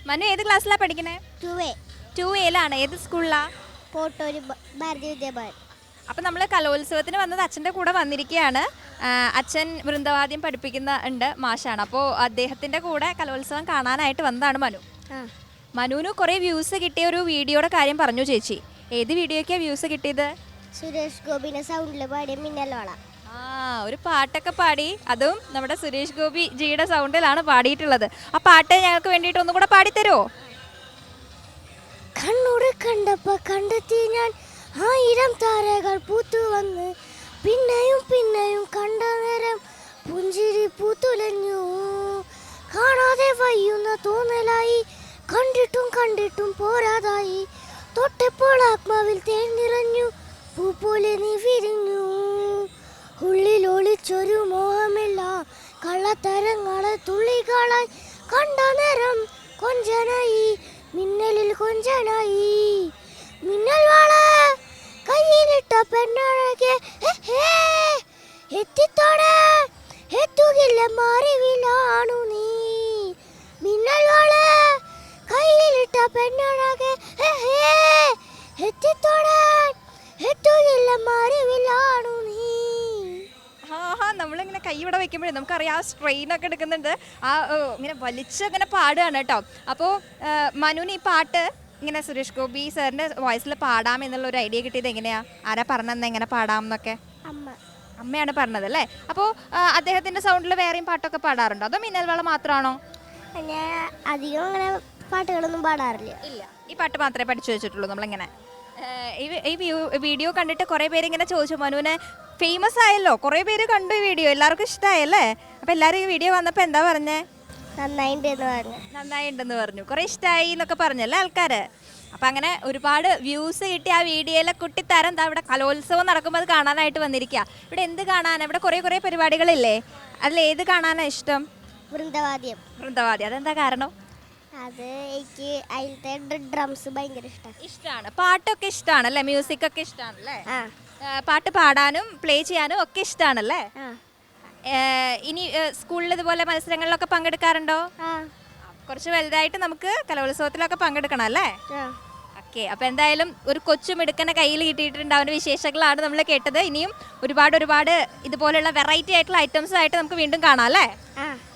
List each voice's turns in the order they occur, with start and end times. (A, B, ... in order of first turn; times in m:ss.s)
0:00.1-0:01.2 A
0:01.4-0:01.8 B
0:02.2-0:03.4 A
0:03.9-0:05.6 B
0:06.1-0:14.8 A
0:15.8-0:20.3 A
0:20.8-0:23.0 B
0:23.3-0:30.2 A
0:32.2-0:36.9 B
0:37.4-0:52.7 B
0:53.2-1:02.9 B
1:03.4-1:23.2 B
1:23.7-1:37.0 A
1:37.3-1:37.6 B
1:38.0-1:42.8 A
1:43.4-1:46.2 B
1:46.2-1:48.3 A
1:48.8-1:57.2 A
1:57.8-1:58.8 B
1:58.9-2:01.6 A
2:02.2-2:11.4 A
2:11.9-2:12.6 B
2:12.8-2:13.9 A
2:14.6-2:17.6 B
2:17.6-2:20.4 A
2:21.0-2:23.6 A
2:24.7-2:27.8 A
2:28.0-2:28.3 B
2:28.7-2:31.5 A
2:32.4-2:40.9 A